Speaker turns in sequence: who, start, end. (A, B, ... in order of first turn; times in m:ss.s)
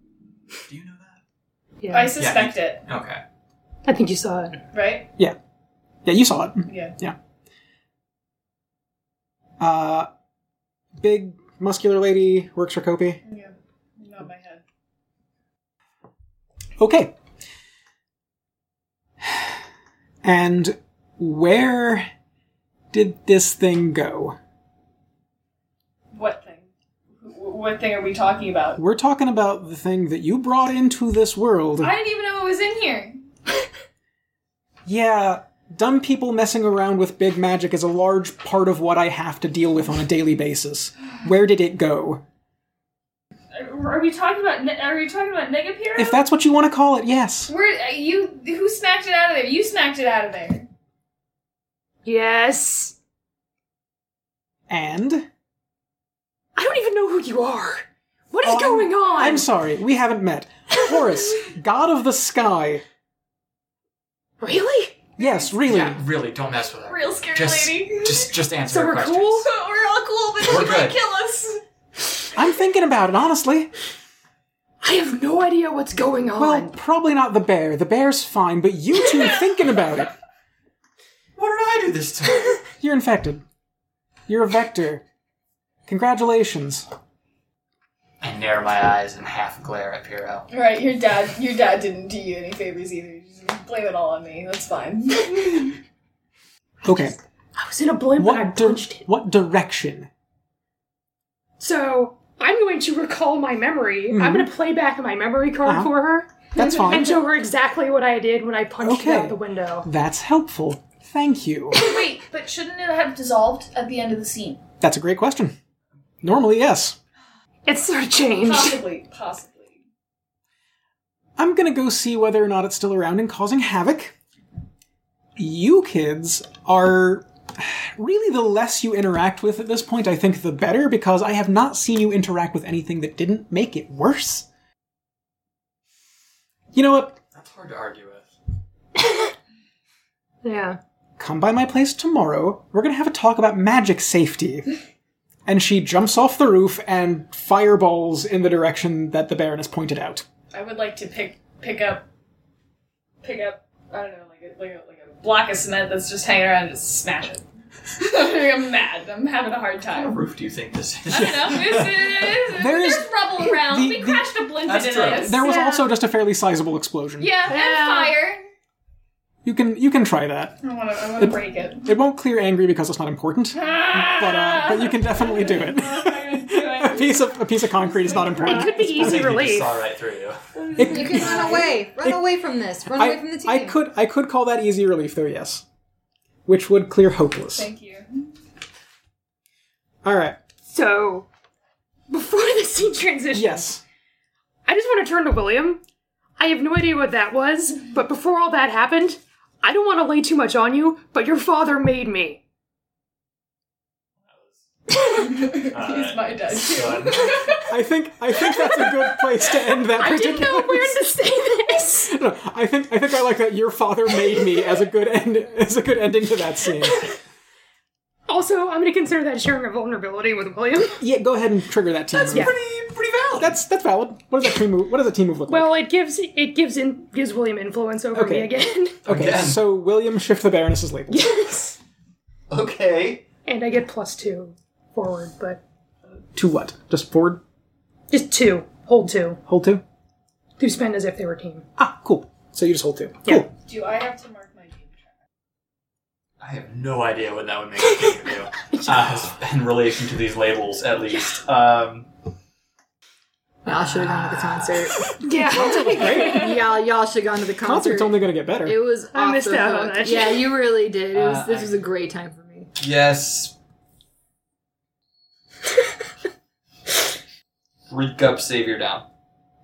0:00.7-0:01.2 A
0:01.8-0:02.1 B
0:01.9-0:02.8 C
0:02.2-0:03.2 A
0:03.8-0:04.6 B
0:04.7-0:05.1 C
0:06.0-0:07.2 D
0:06.7-0:06.9 C
0:09.6-0:10.1 D
0:11.0-0:13.2 D
0:13.3-0:14.6 C
0:16.8-0:17.1 D
0:19.2-0:19.5 D
0:20.2-0:22.1 D
0:22.9-0:24.4 D
0:26.1-0:28.8 C
0:28.8-0:31.9 D
0:31.8-0:33.3 C
0:34.8-0:42.2 D
0:43.5-0:46.2 C
0:45.9-0:47.5 D
0:47.5-0:50.7 C
0:52.0-0:52.9 B
0:54.7-0:55.3 D
0:56.6-0:59.5 B
0:58.4-1:02.8 D
1:04.4-1:05.1 B
1:05.2-1:06.0 D
1:05.6-1:09.4 A
1:06.8-1:08.3 C
1:08.7-1:09.5 B
1:09.4-1:11.6 C
1:10.4-1:11.0 A
1:12.4-1:13.7 D
1:14.8-1:16.7 B
1:16.4-1:20.1 D
1:21.4-1:22.6 A
1:22.8-1:23.4 D
1:24.3-1:25.0 D
1:25.9-1:26.8 D
1:28.2-1:30.4 A
1:30.5-1:35.8 C
1:36.8-1:37.2 D
1:37.6-1:39.1 B
1:38.2-1:40.1 D
1:41.6-1:49.9 B
1:44.1-1:44.5 D
1:45.6-1:45.9 D
1:46.5-1:47.2 D
1:48.8-1:51.8 D
1:51.7-1:54.6 C
1:54.8-1:55.6 D
1:56.2-1:57.0 D
1:57.7-1:58.8 B
1:58.3-1:59.8 C
2:01.4-2:04.1 D
2:05.4-2:14.5 D
2:16.7-2:17.2 D
2:17.3-2:18.3 A
2:19.0-2:19.3 B
2:20.4-2:20.8 B
2:21.2-2:24.7 D
2:25.4-2:30.2 D
2:30.5-2:32.0 C
2:33.2-2:37.4 C
2:37.9-2:40.2 C
2:40.0-2:42.4 A
2:41.1-2:45.8 C
2:42.5-2:44.2 D
2:44.6-2:45.4 A
2:45.2-2:47.3 D
2:47.2-2:48.4 C
2:47.5-2:48.2 B
2:49.4-2:50.6 D
2:50.6-2:51.9 C
2:51.2-2:59.5 D
2:53.5-2:57.3 C
2:57.8-2:58.7 C
2:58.4-2:59.7 B
2:58.7-3:00.4 A
3:00.6-3:01.8 C
3:00.8-3:02.2 D
3:00.8-3:03.8 E
3:02.9-3:05.6 D
3:06.4-3:07.7 D
3:07.5-3:08.3 C
3:10.0-3:10.4 D
3:10.6-3:11.3 B
3:12.1-3:13.7 B
3:13.3-3:13.8 D
3:14.6-3:15.8 B
3:16.4-3:22.4 B
3:24.3-3:24.6 A
3:25.1-3:27.7 C
3:25.5-3:27.5 A
3:27.7-3:31.0 D
3:29.9-3:32.1 B
3:32.0-3:37.1 D
3:38.3-3:41.0 B
3:41.0-3:42.5 D
3:42.1-3:43.5 A
3:43.4-3:45.8 D
3:45.5-3:49.0 B
3:48.1-3:48.5 D
3:49.0-3:51.3 D
3:49.0-3:49.6 A
3:51.1-3:51.8 B
3:52.5-3:53.2 A
3:53.4-3:55.6 B
3:56.3-3:57.4 D
3:58.1-3:59.4 B
3:59.5-3:59.8 D
4:00.6-4:01.6 B
4:01.8-4:03.5 D
4:03.6-4:05.0 C
4:06.4-4:12.1 A
4:13.6-4:15.1 E
4:14.0-4:14.7 A
4:15.2-4:16.5 B
4:15.5-4:16.5 D
4:15.8-4:22.7 E
4:17.6-4:18.8 D
4:19.1-4:20.4 B
4:21.1-4:21.8 A
4:22.8-4:23.5 A
4:27.9-4:29.0 A